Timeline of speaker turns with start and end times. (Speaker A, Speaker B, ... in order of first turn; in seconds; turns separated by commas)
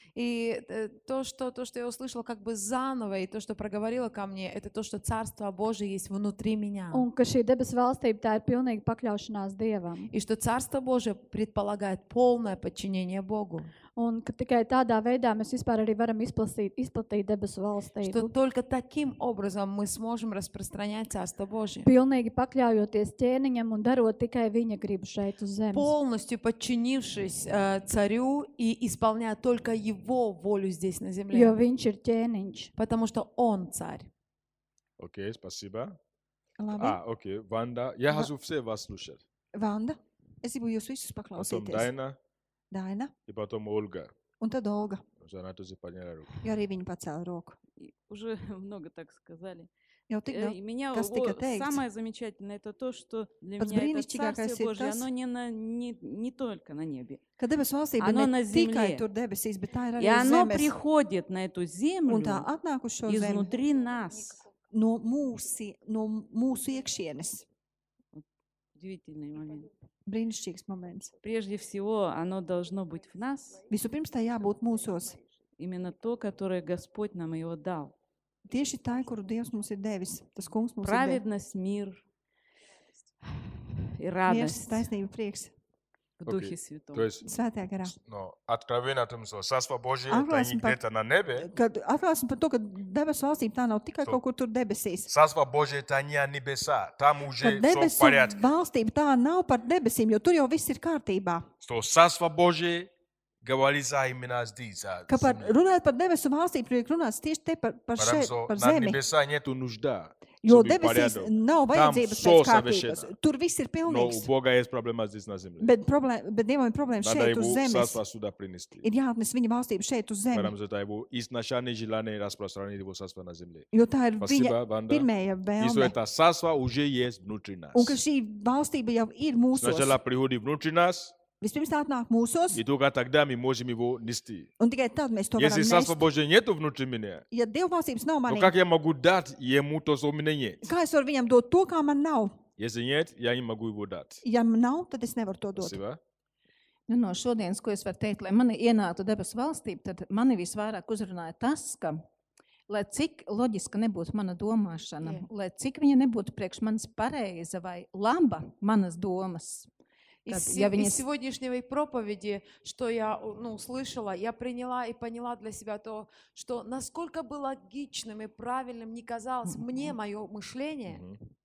Speaker A: 0.1-7.1, Speaker B: 6.9-10.1, Speaker A: 10.1-13.7, Speaker B: 14.0-18.3, Speaker A: 18.0-21.9, Speaker B: 21.8-25.9, Speaker A: 25.7-31.6, Speaker B: 31.3-32.7, Speaker A: 32.8-34.1, Speaker C: 35.0-36.0, Speaker D: 36.6-37.0, Speaker C: 36.8-39.2, Speaker D: 39.5-41.9, Speaker C: 41.4-42.1, Speaker D: 42.7-43.1, Speaker C: 43.3-44.1, Speaker D: 44.4-45.0, Speaker C: 45.2-46.4, Speaker D: 46.4-47.6, Speaker E: 47.8-49.7, Speaker D: 50.1-51.8, Speaker E: 50.3-57.2, Speaker D: 53.6-55.1, Speaker D: 57.4-60.8, Speaker E: 58.0-59.1, Speaker E: 60.0-62.5, Speaker D: 62.1-63.5, Speaker E: 63.1-64.4, Speaker D: 64.7-67.4, Speaker E: 68.8-69.7, Speaker D: 70.1-71.1, Speaker E: 71.2-73.7, Speaker D: 73.7-75.2, Speaker E: 75.6-77.9, Speaker D: 78.5-81.2, Speaker E: 80.8-82.0, Speaker E: 84.0-84.8, Speaker D: 84.3-85.5, Speaker E: 86.2-87.1, Speaker C: 86.3-87.3, Speaker D: 87.2-87.9, Speaker C: 88.0-91.5, Speaker D: 90.1-90.8, Speaker D: 91.4-95.1, Speaker C: 95.1-98.4, Speaker D: 97.4-101.5, Speaker C: 101.6-102.9, Speaker C: 103.4-105.5, Speaker D: 105.1-109.0, Speaker C: 108.0-113.1, Speaker D: 110.4-114.3, Speaker C: 113.9-115.7, Speaker D: 115.6-118.0, Speaker C: 117.0-118.8, Speaker D: 118.8-120.5, Speaker C: 120.3-123.7, Speaker D: 123.7-125.9, Speaker C: 124.2-125.1, Speaker C: 125.6-128.0, Speaker D: 127.7-130.0, Speaker C: 129.6-131.1, Speaker D: 131.4-132.6, Speaker C: 132.5-134.5, Speaker D: 134.6-136.1, Speaker C: 135.4-137.2, Speaker D: 137.3-138.5, Speaker C: 138.3-140.7, Speaker D: 140.6-142.4, Speaker C: 142.6-144.2, Speaker D: 144.2-145.8, Speaker C: 145.6-146.0, Speaker F: 146.9-152.0, Speaker F: 152.7-159.7, Speaker A: 155.0-155.3, Speaker F: 160.3-161.0, Speaker A: 160.3-171.0, Speaker F: 169.5-169.9, Speaker C: 170.9-171.2